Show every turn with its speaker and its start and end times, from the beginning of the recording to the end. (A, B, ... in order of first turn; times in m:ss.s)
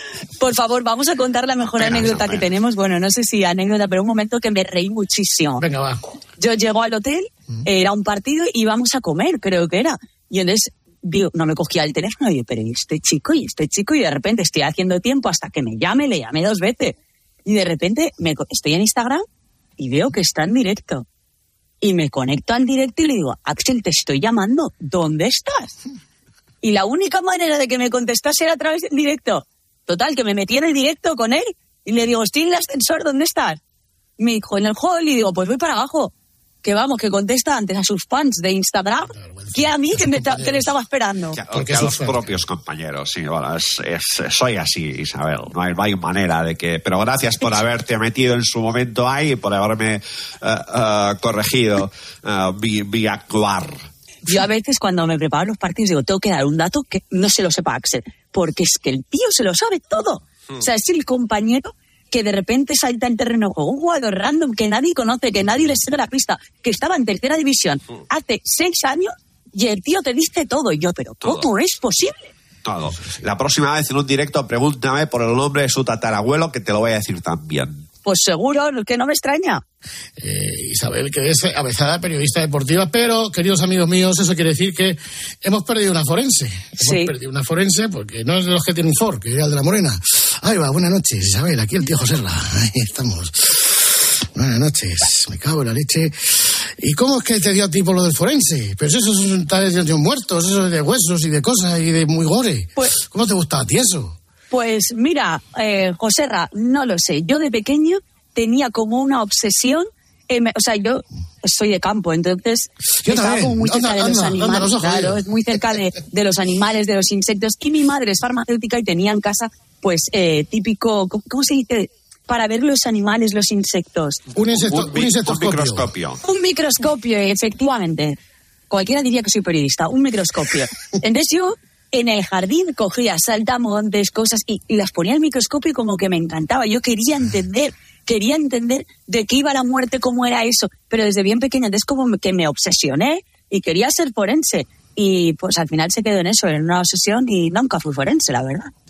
0:00.4-0:05.6 A
0:01.8-0:02.5 B
0:05.6-0:06.0 C
0:06.4-0:19.2 A
0:19.8-0:21.0 A
0:21.8-0:25.7 A
0:26.6-0:33.6 A
0:34.2-0:36.1 A
0:36.6-0:41.4 A
0:39.1-0:40.7 C
0:41.4-0:53.9 B
0:41.5-0:42.2 C
0:54.3-1:12.3 A
1:12.6-1:17.9 B
1:18.0-1:19.6 A
1:20.2-1:33.8 C
1:26.8-1:27.1 A
1:34.4-1:36.1 C
1:36.8-1:44.2 C
1:44.5-2:04.2 A
1:53.0-1:55.2 C
2:04.4-2:05.9 C
2:04.5-2:06.2 B
2:06.2-2:08.2 A
2:08.7-2:28.7 A